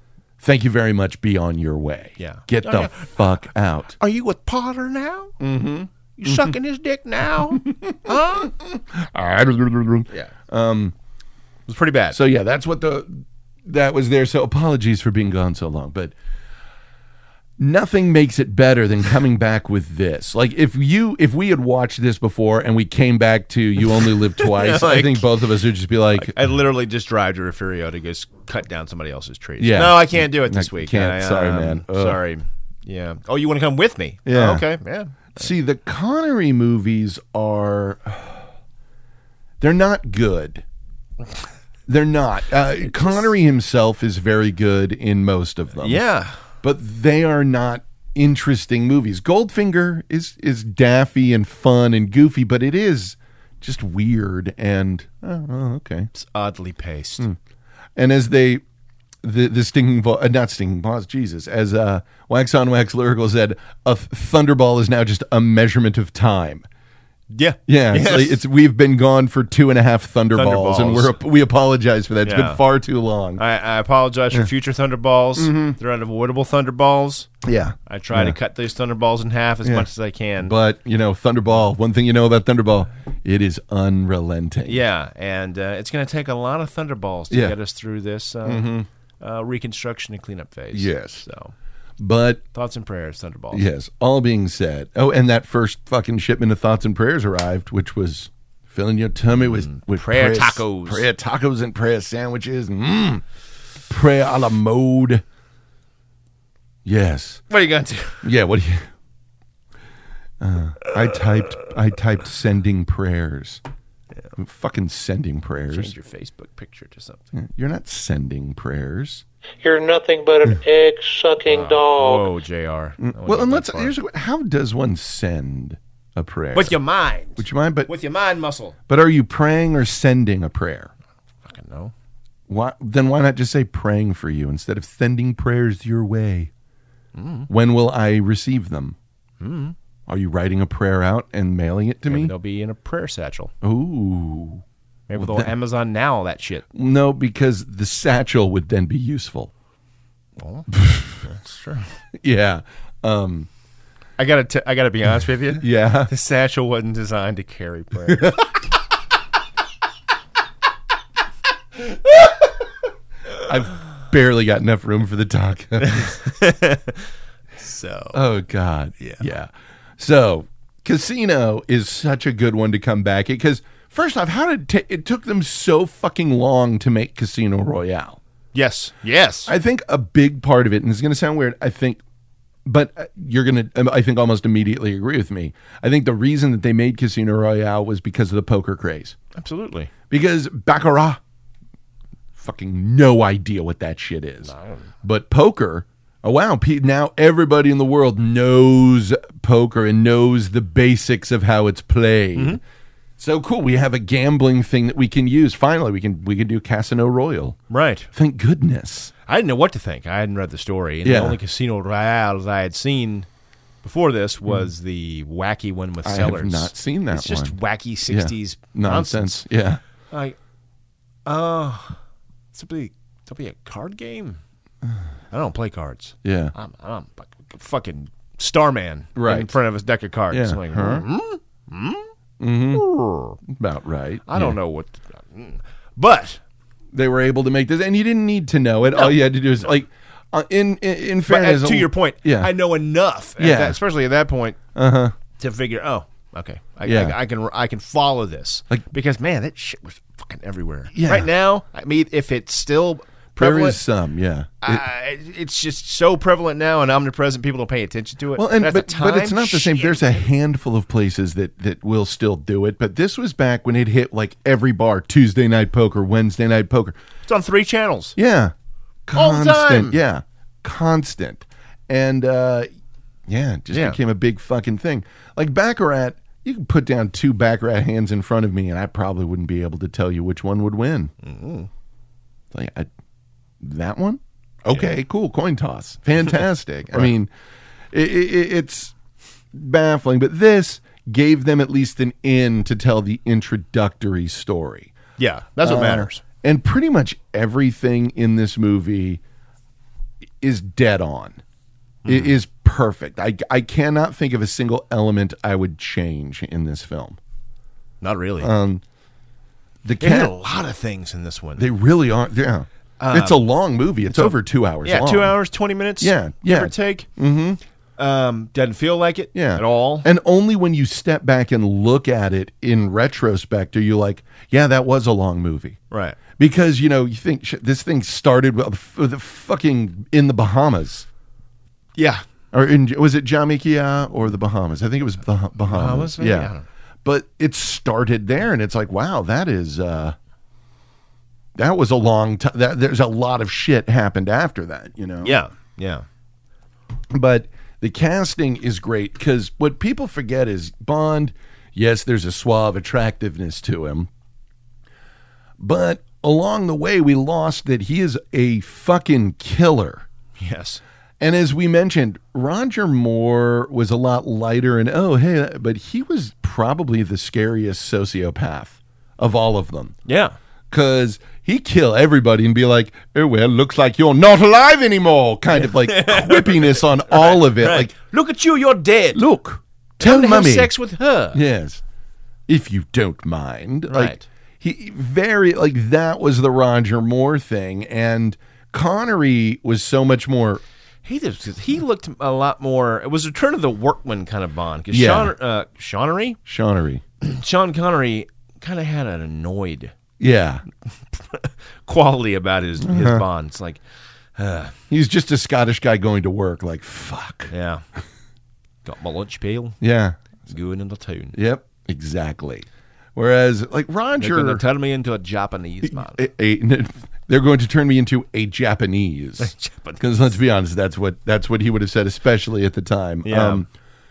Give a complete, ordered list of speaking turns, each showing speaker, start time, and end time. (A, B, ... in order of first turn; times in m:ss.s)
0:00.4-0:04.0 A
0:02.2-0:03.1 B
0:04.0-0:05.4 B
0:05.4-0:06.5 A
0:06.2-0:08.6 B
0:07.7-0:10.9 A
0:11.7-0:12.2 B
0:12.1-0:16.1 A
0:17.6-0:26.4 A
0:24.0-0:25.3 B
0:26.1-0:35.5 B
0:29.6-0:32.2 A
0:34.2-0:34.7 A
0:35.3-0:38.4 A
0:39.6-0:40.6 A
0:41.9-0:46.0 A
0:42.9-0:43.2 B
0:45.8-0:46.4 B
0:46.6-0:56.1 A
0:56.1-0:57.3 B
0:58.0-0:58.6 A
0:59.2-1:06.7 A
1:07.3-1:08.4 B
1:07.7-1:13.4 A
1:10.3-1:11.2 B
1:12.2-1:12.6 B
1:13.4-1:17.3 B
1:15.4-1:15.8 A
1:17.4-1:18.4 A
1:17.9-1:20.6 B
1:20.4-1:24.8 A
1:24.7-1:31.5 B
1:27.3-1:27.6 A
1:28.4-1:28.9 A
1:30.7-1:31.2 A
1:32.0-1:32.4 A
1:32.5-1:33.7 B
1:33.5-1:43.2 A
1:39.7-1:41.1 B
1:43.9-1:45.2 A
1:46.8-1:47.4 A
1:47.5-1:48.3 B
1:48.2-1:48.9 A
1:50.4-1:53.6 A
1:54.4-1:55.9 A
1:55.7-1:57.3 B
1:57.3-1:59.2 A
1:59.6-2:02.3 C
2:01.5-2:04.0 B
2:03.0-2:06.8 A
2:06.5-2:08.8 B
2:07.4-2:07.9 A
2:08.9-2:10.9 A
2:11.4-2:11.9 B
2:12.5-2:16.5 A
2:17.2-2:17.5 B
2:17.5-2:19.0 A
2:19.4-2:19.8 B
2:20.1-2:22.3 A
2:22.1-2:23.5 B
2:23.6-2:25.5 A
2:25.1-2:26.6 B
2:26.7-2:29.5 A
2:30.4-2:30.7 B
2:30.7-2:31.2 A
2:31.2-2:31.9 B
2:32.2-2:33.5 A
2:34.2-2:38.4 B
2:35.6-2:36.1 A
2:38.1-2:38.5 A
2:42.0-2:42.3 A
2:43.4-2:46.2 A
2:45.9-2:48.2 B
2:48.1-2:58.2 A
2:58.5-2:59.5 B
2:59.5-3:02.0 A
3:02.7-3:09.2 A
3:09.3-3:09.9 B
3:10.1-3:11.2 A
3:12.4-3:22.6 A
3:14.4-3:14.9 B
3:23.2-3:27.6 A
3:27.7-3:28.1 B
3:28.1-3:29.1 A
3:29.2-3:33.3 B
3:31.0-3:31.4 A
3:33.8-3:39.5 B
3:36.0-3:37.6 A
3:38.1-3:39.8 A
3:40.1-3:40.4 B
3:41.2-3:42.0 B
3:42.5-3:44.4 B
3:45.3-3:52.1 B
3:46.2-3:46.5 A
3:49.2-3:49.6 A
3:50.3-3:51.0 A
3:52.4-3:52.8 A
3:52.7-3:53.4 B
3:53.5-3:54.6 A
3:54.3-3:56.4 B
3:56.9-4:02.5 A
3:58.9-3:59.2 B
4:01.2-4:04.6 B
4:03.4-4:03.8 A
4:04.8-4:05.2 A
4:05.4-4:13.8 B
4:06.8-4:07.2 A
4:10.9-4:11.3 A
4:13.4-4:14.8 A
4:14.6-4:20.2 B
4:18.4-4:27.0 A
4:27.3-4:28.2 B
4:28.2-4:28.5 A
4:29.1-4:32.7 A
4:29.1-4:30.0 B
4:33.3-4:41.1 A
4:33.7-4:34.0 B
4:41.2-4:41.7 B
4:42.5-4:42.9 A
4:43.6-4:47.3 A
4:44.7-4:45.0 B
4:47.9-4:48.9 A
4:49.5-4:54.9 A
4:55.2-4:56.2 B
4:55.6-4:59.2 A
5:00.4-5:01.4 A
5:02.0-5:02.4 B
5:02.1-5:07.2 A
5:08.0-5:08.5 B
5:08.4-5:08.8 A
5:09.8-5:10.3 A
5:10.0-5:11.7 B
5:11.6-5:15.4 A
5:13.0-5:13.4 B
5:14.1-5:17.1 B
5:16.0-5:17.6 A
5:18.0-5:20.1 B
5:19.3-5:25.8 A
5:25.9-5:26.2 B
5:26.4-5:31.1 A
5:32.0-5:32.2 B
5:32.5-5:36.5 A
5:35.7-5:36.6 B
5:37.0-5:40.2 A
5:41.6-5:45.4 A
5:45.2-5:46.1 B
5:47.1-5:54.1 A
5:55.6-6:00.1 A
6:00.4-6:00.8 B
6:01.2-6:10.0 A
6:10.1-6:10.4 B
6:10.7-6:17.9 A
6:15.6-6:19.2 B
6:19.1-6:20.7 A
6:20.0-6:21.4 B
6:21.3-6:21.8 A
6:22.5-6:30.6 A
6:23.9-6:24.2 B
6:31.0-6:36.4 B
6:34.9-6:35.3 A
6:36.5-6:37.0 A
6:37.2-6:39.9 B
6:40.2-6:40.6 A
6:40.9-6:43.8 B
6:42.8-6:43.2 A
6:44.4-6:44.8 B
6:44.9-6:47.5 A
6:47.5-6:47.8 B
6:48.8-6:49.8 B
6:49.8-6:50.2 A
6:50.4-6:51.4 B
6:51.3-6:54.6 A
6:54.2-6:56.2 B
6:55.9-7:03.7 A
6:59.4-7:00.3 B
7:03.2-7:03.6 B